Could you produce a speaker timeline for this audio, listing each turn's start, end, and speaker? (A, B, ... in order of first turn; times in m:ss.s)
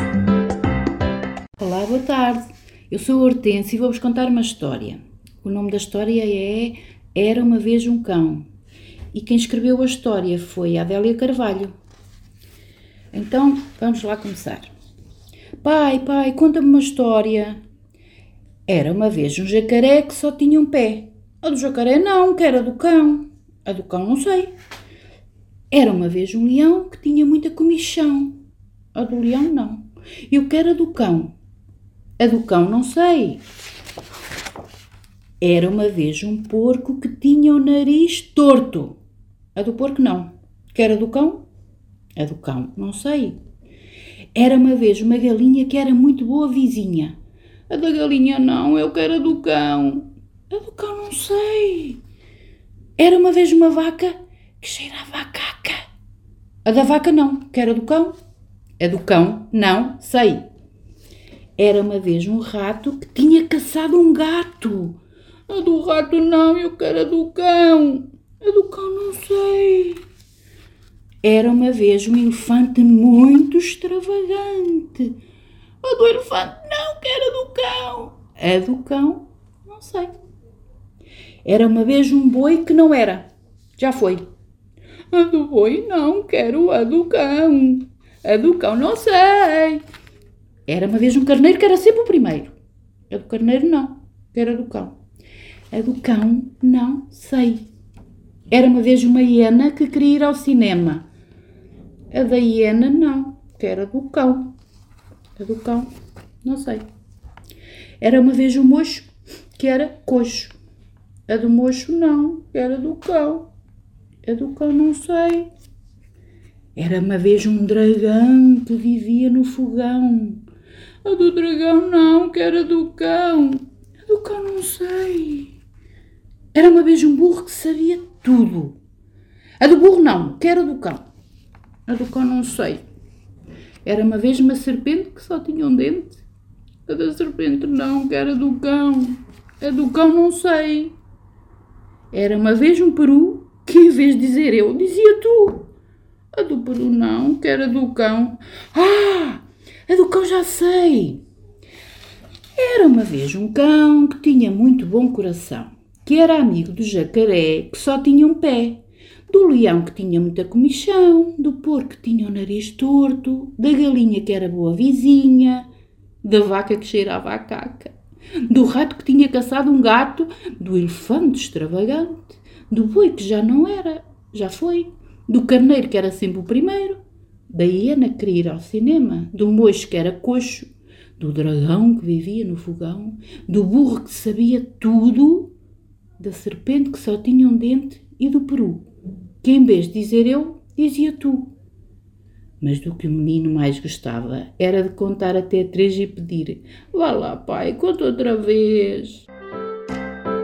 0:01.6-0:08.5 A
0:09.1-0:11.7 A
0:13.1-0:14.7 A
0:15.6-0:17.6 A
0:18.7-0:24.5 A
0:25.7-0:28.4 A
0:28.9-0:31.3 A
0:32.2-0:33.4 A
0:35.4-0:39.0 A
0:39.5-0:41.4 A
0:42.2-0:43.4 A
0:44.3-0:47.2 A
0:47.7-0:52.0 A
0:53.0-0:55.8 A
0:56.6-0:58.2 A
0:58.8-1:00.5 A
1:01.6-1:10.0 A
1:11.2-1:15.2 A
1:15.8-1:20.1 A
1:21.4-1:24.2 A
1:25.1-1:29.8 A
1:30.7-1:32.5 A
1:33.1-1:35.0 A
1:35.7-1:37.6 A
1:38.5-1:41.0 A
1:42.1-1:44.5 A
1:45.4-1:45.9 A
1:46.4-1:46.9 A
1:48.0-1:50.6 A
1:51.3-1:53.5 A
1:54.2-1:55.5 A
1:56.8-2:00.4 A
2:01.0-2:05.5 A
2:06.5-2:08.8 A
2:09.6-2:11.0 A
2:11.9-2:12.8 A
2:13.8-2:16.2 A
2:16.8-2:21.0 A
2:22.1-2:25.7 A
2:26.3-2:31.2 A
2:32.6-2:45.7 A
2:46.2-2:47.9 A
2:48.4-2:57.0 A
2:57.5-3:05.5 A
3:06.2-3:08.8 A
3:09.4-3:11.5 A
3:12.6-3:19.3 A